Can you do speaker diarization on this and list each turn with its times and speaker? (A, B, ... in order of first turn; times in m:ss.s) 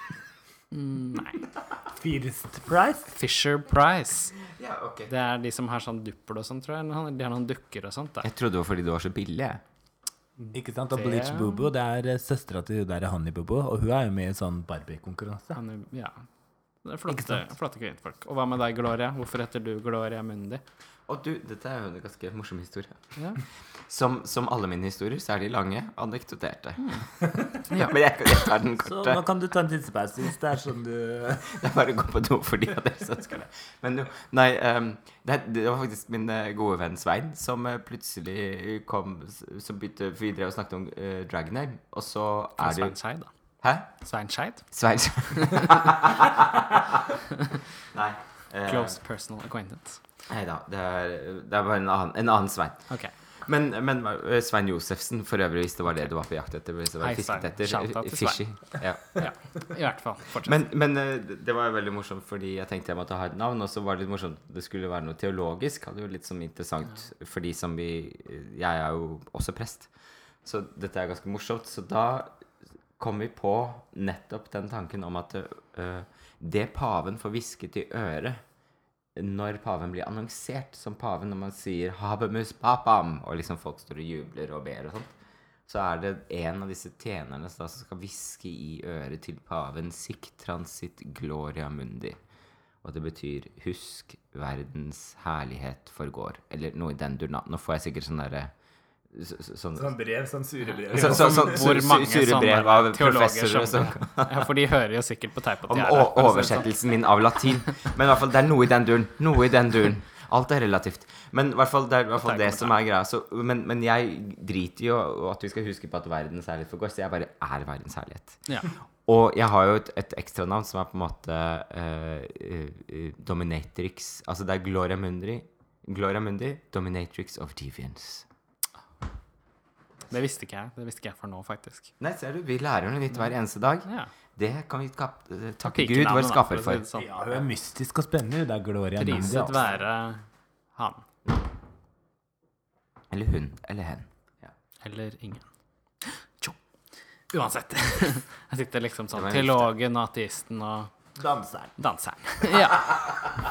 0:00.7-0:01.4 A
0:02.0-0:03.1 B
0:03.1-0:04.3 A
0:04.5-0:05.1 C
0:05.1-0:08.3 A
0:08.2-0:09.6 C
0:10.5-0:15.6 B
0:10.9-0:11.6 A
0:15.5-0:16.2 A
0:16.8-0:20.6 A
0:17.1-0:17.4 B
0:21.1-0:23.0 C
0:23.9-0:29.2 C
0:28.8-0:31.5 B
0:31.5-0:43.0 C
0:42.6-0:43.3 A
0:43.6-0:43.9 C
0:44.0-0:44.7 A
0:44.7-0:46.6 C
0:47.9-0:49.0 C
0:48.7-0:50.0 A
0:50.3-0:59.4 C
0:57.0-1:00.7 A
1:00.4-1:09.9 C
1:10.4-1:12.3 C
1:13.0-1:18.4 C
1:19.2-1:25.1 C
1:25.7-1:32.2 C
1:32.8-1:38.5 C
1:39.1-1:39.9 C
1:39.7-1:41.6 B
1:40.9-1:44.5 C
1:40.9-1:46.7 A
1:45.7-2:08.2 C
1:52.2-1:52.8 A
2:10.1-2:11.9 A
2:12.0-2:16.8 C
2:15.6-2:17.2 A
2:17.0-2:19.7 B
2:19.0-2:20.2 A
2:20.8-2:21.0 A
2:23.1-2:24.5 C
2:24.8-2:25.4 A
2:26.0-2:26.6 A
2:27.3-2:30.9 A
2:29.1-2:29.7 C
2:31.2-2:31.7 B
2:31.8-2:33.1 A